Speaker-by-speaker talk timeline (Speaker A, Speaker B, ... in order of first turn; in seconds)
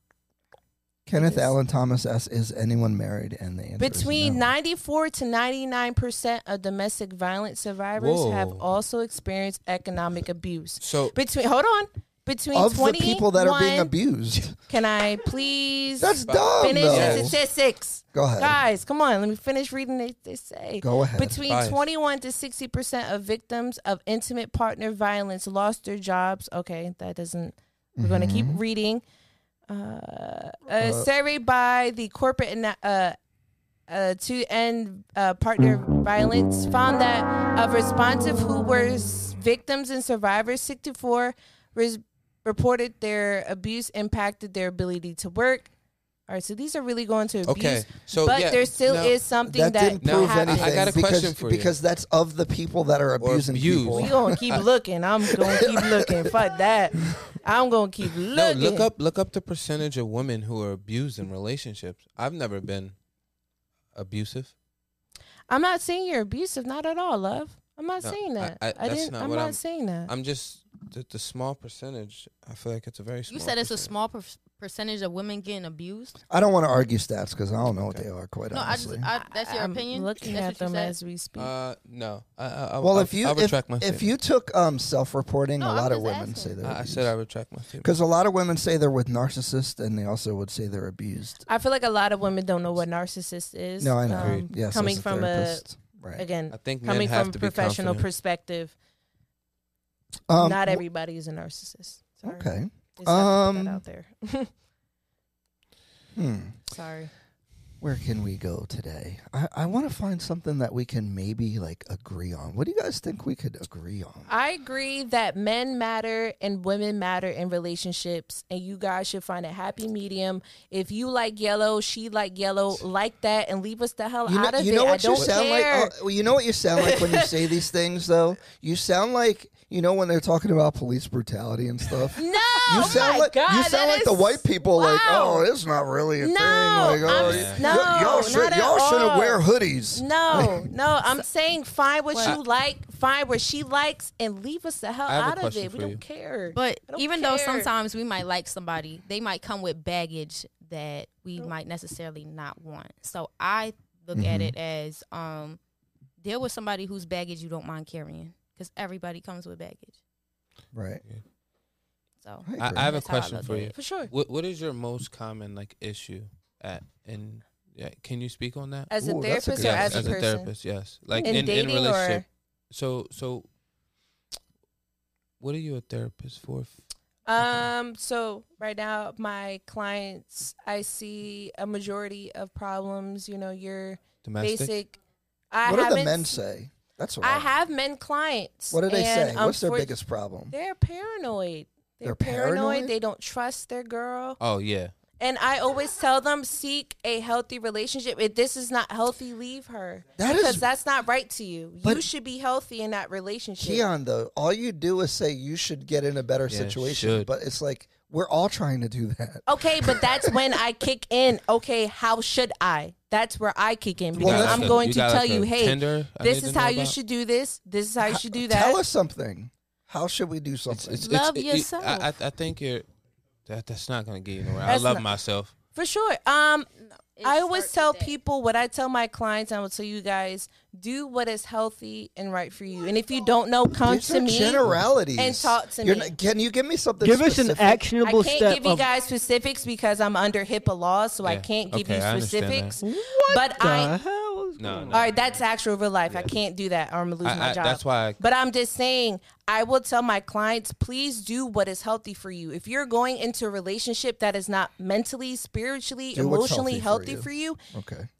Speaker A: 1.1-4.5, 12.5-14.6, 16.0-17.4, 18.1-18.6, 20.8-21.4, 28.0-28.6, 30.7-31.1, 49.4-54.4, 55.4-56.3, 76.3-79.1, 82.8-87.1, 87.8-91.4, 93.8-96.2, 100.3-100.8, 102.2-103.8, 106.1-106.5, 107.8-114.3, 124.2-140.7, 154.1-154.5, 160.7-161.0, 162.4-162.9, 169.0-170.2, 177.4-177.7, 185.6-187.5, 188.7-190.5, 192.0-192.9, 200.2-200.7, 203.6-210.3, 214.1-214.8, 218.0-221.0, 233.8-237.8, 256.1-258.1
Speaker B: 1.1-1.5, 3.8-13.9, 14.7-29.0, 29.7-33.2, 33.9-45.7, 46.3-51.0, 53.9-58.9, 65.5-70.1, 79.1-81.5, 91.5-95.6, 96.2-98.7, 100.4-104.5, 106.7-107.1, 114.3-125.9, 126.8-127.3, 132.1-135.4, 136.2-139.4, 139.9-147.7, 163.7-164.1, 168.9-170.5, 171.2-172.2, 177.2-184.9, 185.5-186.4, 187.2-189.9, 190.5-194.4, 195.2-203.8, 209.5-218.8, 224.7-225.1, 225.7-226.7, 227.2-236.1, 238.0-243.9, 244.9-257.6
Speaker C: 8.0-8.6, 10.8-11.1, 16.2-17.3, 21.5-21.8, 47.5-49.2, 50.0-51.7, 53.2-54.6, 58.3-62.9, 63.9-64.5, 68.0-73.9, 77.7-78.0, 81.3-84.1, 86.6-87.9, 94.2-94.5, 96.5-98.0, 137.0-138.3, 145.1-146.0, 162.6-168.9, 169.5-173.5, 175.4-176.8, 184.2-184.7, 194.4-194.9, 206.5-207.3, 214.2-216.9, 220.7-222.9, 223.4-225.5, 241.2-242.8, 244.6-245.1, 246.1-246.3, 247.2-248.2
Speaker D: 73.3-76.2, 78.5-80.9, 85.6-86.5, 146.5-155.6, 156.2-160.0, 162.2-163.8, 221.0-222.1, 226.8-228.1
Speaker E: 237.0-238.8, 242.8-245.1